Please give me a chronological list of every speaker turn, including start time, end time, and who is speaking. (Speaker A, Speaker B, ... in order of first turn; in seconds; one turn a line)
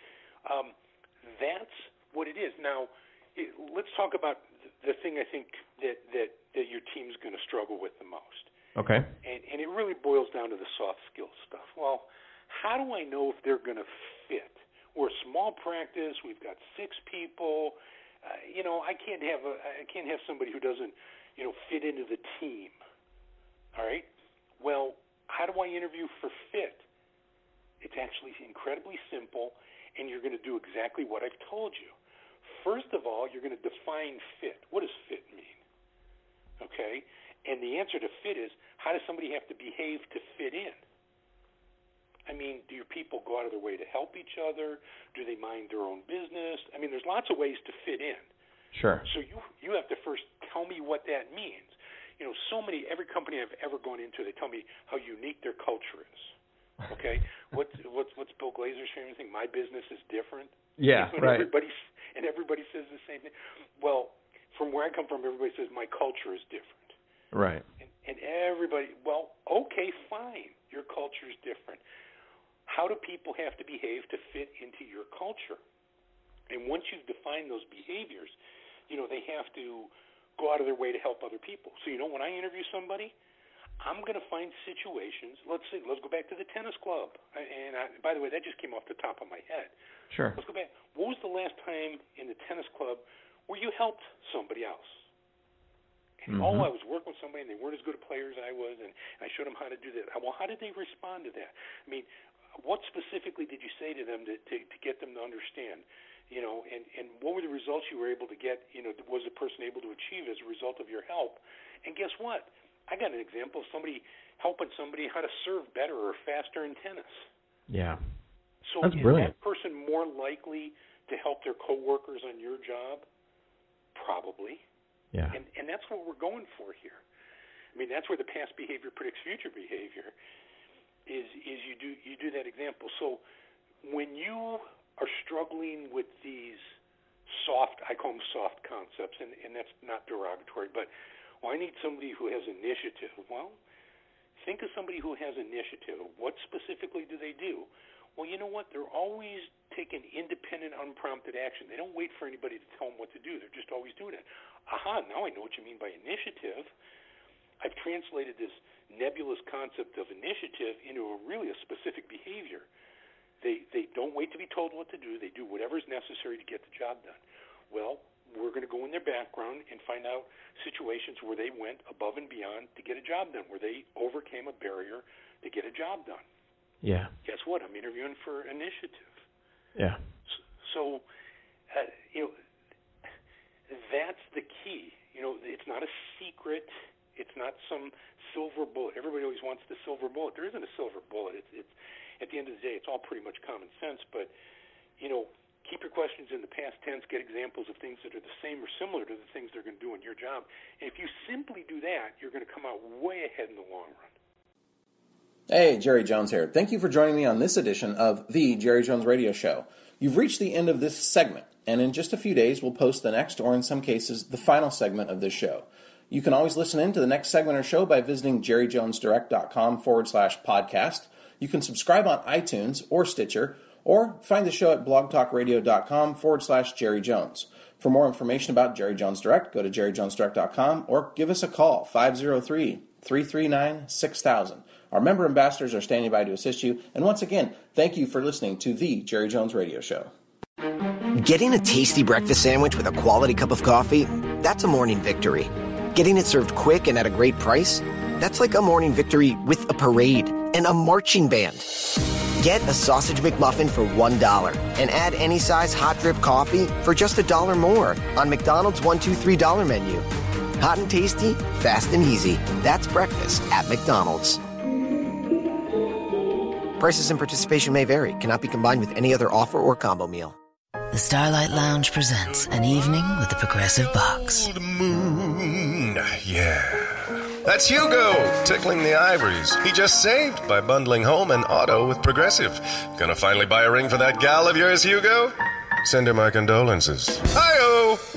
Speaker A: 0.5-8.5
Speaker B: 8.8-9.1
Speaker A: 9.2-22.8
Speaker A: 23.8-24.1
Speaker A: 24.6-26.8
Speaker A: 27.8-31.9
Speaker A: 32.4-35.6
Speaker A: 36.6-40.8
Speaker A: 42.3-48.3
Speaker B: 48.7-49.1
Speaker A: 49.0-56.3
Speaker A: 56.9-67.0
Speaker B: 60.8-61.5
Speaker B: 67.3-67.7
Speaker A: 67.8-71.8
Speaker A: 72.7-75.6
Speaker A: 76.5-78.4
Speaker A: 78.9-83.2
Speaker A: 83.8-89.7
Speaker B: 90.1-90.4
Speaker A: 90.4-95.0
Speaker A: 96.2-102.1
Speaker B: 96.3-96.7
Speaker A: 102.6-117.3
Speaker B: 117.7-118.0
Speaker A: 118.7-123.1
Speaker B: 118.8-119.3
Speaker A: 124.0-124.6
Speaker A: 125.3-127.0
Speaker A: 127.7-130.1
Speaker A: 131.1-133.2
Speaker A: 133.8-136.7
Speaker A: 137.3-140.9
Speaker A: 141.4-143.6
Speaker A: 144.4-156.7
Speaker A: 157.6-162.7
Speaker A: 163.4-176.2
Speaker B: 176.8-177.1
Speaker A: 177.2-179.3
Speaker B: 179.8-180.0
Speaker A: 180.3-181.0
Speaker A: 181.7-182.4
Speaker A: 183.7-194.3
Speaker A: 195.0-204.1
Speaker C: 205.5-240.1
Speaker D: 241.2-260.1
Speaker D: 260.6-264.4
Speaker D: 266.8-270.4
Speaker E: 270.9-274.5
Speaker F: 272.4-272.9
Speaker F: 274.2-285.3
Speaker F: 285.8-288.0